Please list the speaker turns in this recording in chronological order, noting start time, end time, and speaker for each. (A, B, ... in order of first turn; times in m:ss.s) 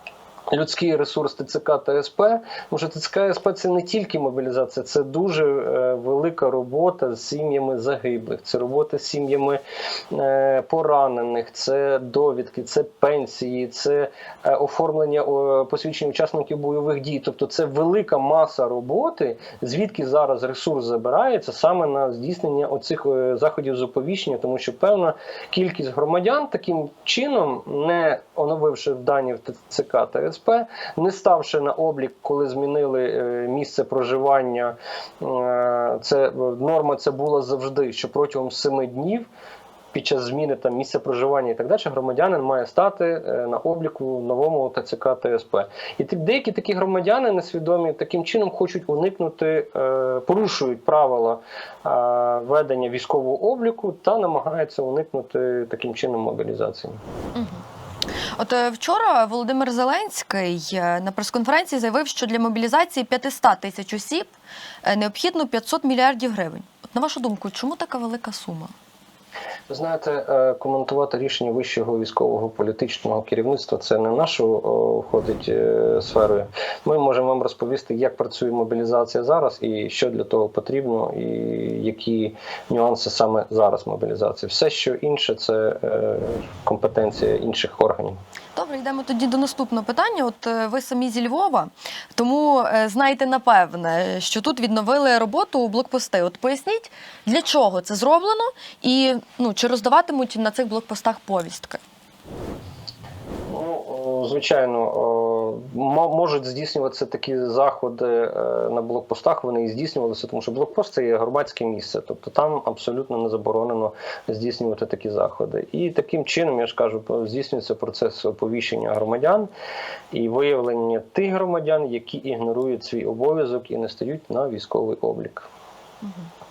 0:00.5-0:39.3 A
0:39.9-0:57.0 A
0:57.3-0:57.6 B
0:58.3-1:04.3 B
1:04.8-1:08.7 B
1:09.7-1:28.2 A
1:28.6-1:41.8 B
1:43.5-1:59.5 A
2:00.1-2:05.5 A
2:06.0-2:06.3 B